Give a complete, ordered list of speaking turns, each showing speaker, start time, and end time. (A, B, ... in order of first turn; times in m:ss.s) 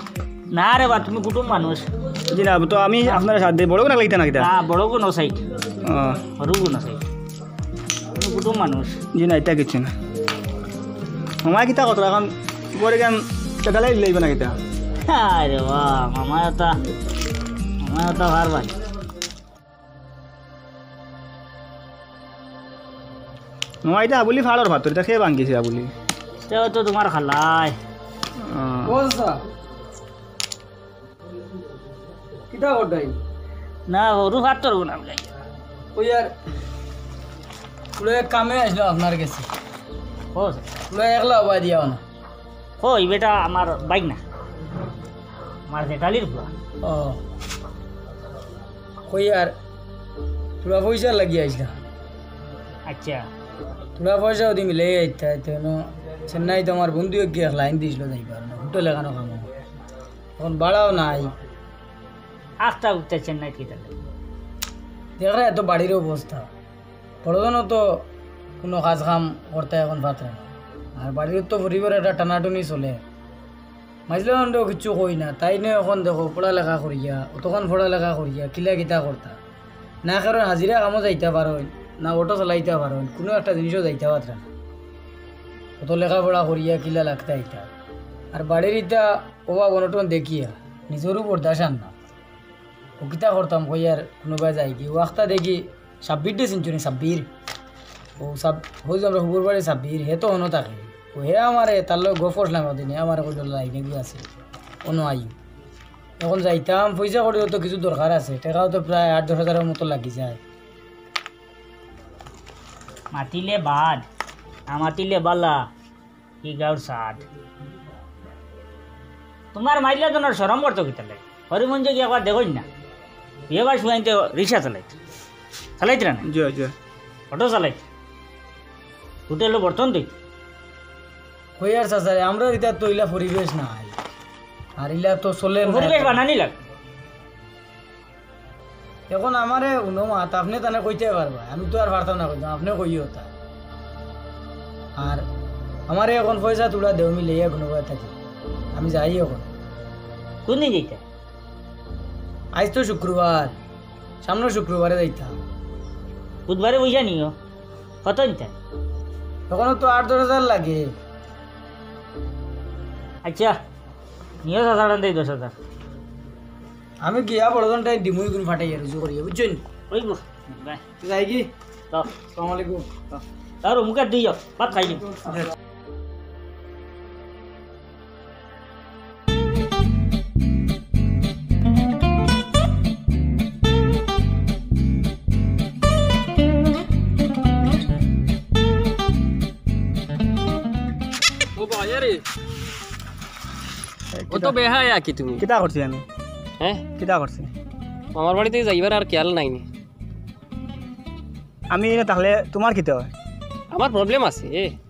0:00.5-0:01.8 A
0:02.3-0:04.5 B
0:04.4-0:05.4 A
0:05.8-0:06.2 B
0:06.3-0:07.0 A
0:08.1-0:09.0 A
0:09.1-0:09.9 B
0:11.4-0:14.6 B
0:15.0-0:16.8 A
0:17.8-0:18.8 A
0:23.8-0:25.9 B
0:26.5-0:27.8 A
0:28.5-0:28.9 B
0:28.8-0:29.4 C
0:32.5-0:33.2 C
0:33.9-0:35.3 A
0:35.9-0:36.3 C
0:38.0-0:39.5 C
0:40.3-0:40.6 A
0:40.9-0:42.0 C
0:42.8-0:44.2 A
0:45.7-0:46.5 A
0:46.8-0:47.2 C
0:49.1-0:49.5 C
0:50.6-0:51.7 C
0:52.9-0:53.3 A
0:54.0-0:59.4 C
1:00.4-1:01.3 C
1:02.6-1:03.9 A
1:05.2-1:06.5 C
1:07.2-1:08.0 C
1:08.6-1:13.0 C
1:14.1-1:19.4 C
1:20.0-1:24.4 C
1:25.8-1:27.7 C
1:28.3-1:31.9 C
1:33.0-1:37.3 C
1:38.2-1:44.2 C
1:44.8-1:45.3 C
1:46.2-1:50.4 C
1:53.1-1:54.0 A
1:54.7-1:55.7 A
1:56.4-1:57.2 A
1:59.5-2:02.6 A
2:03.5-2:04.9 A
2:05.8-2:06.2 A
2:06.2-2:06.7 B
2:07.3-2:07.8 A
2:09.3-2:10.1 A
2:11.6-2:14.0 C
2:14.8-2:16.2 C
2:15.6-2:16.6 A
2:19.1-2:23.3 C
2:25.0-2:25.2 C
2:25.9-2:28.1 C
2:28.7-2:29.4 C
2:30.4-2:31.0 A
2:32.5-2:33.6 C
2:34.2-2:35.4 C
2:36.5-2:37.3 A
2:38.0-2:38.5 A
2:39.5-2:40.9 C
2:43.2-2:43.6 A
2:44.4-2:45.5 A
2:47.0-2:49.6 C
2:49.9-2:50.8 A
2:51.0-2:51.5 C
2:52.3-2:52.8 C
2:53.6-2:55.0 A
3:11.6-3:12.2 D
3:14.2-3:14.6 B
3:14.3-3:15.4 D
3:15.4-3:16.0 B
3:17.0-3:17.5 B
3:18.1-3:19.6 D
3:21.7-3:23.1 B
3:23.7-3:24.7 D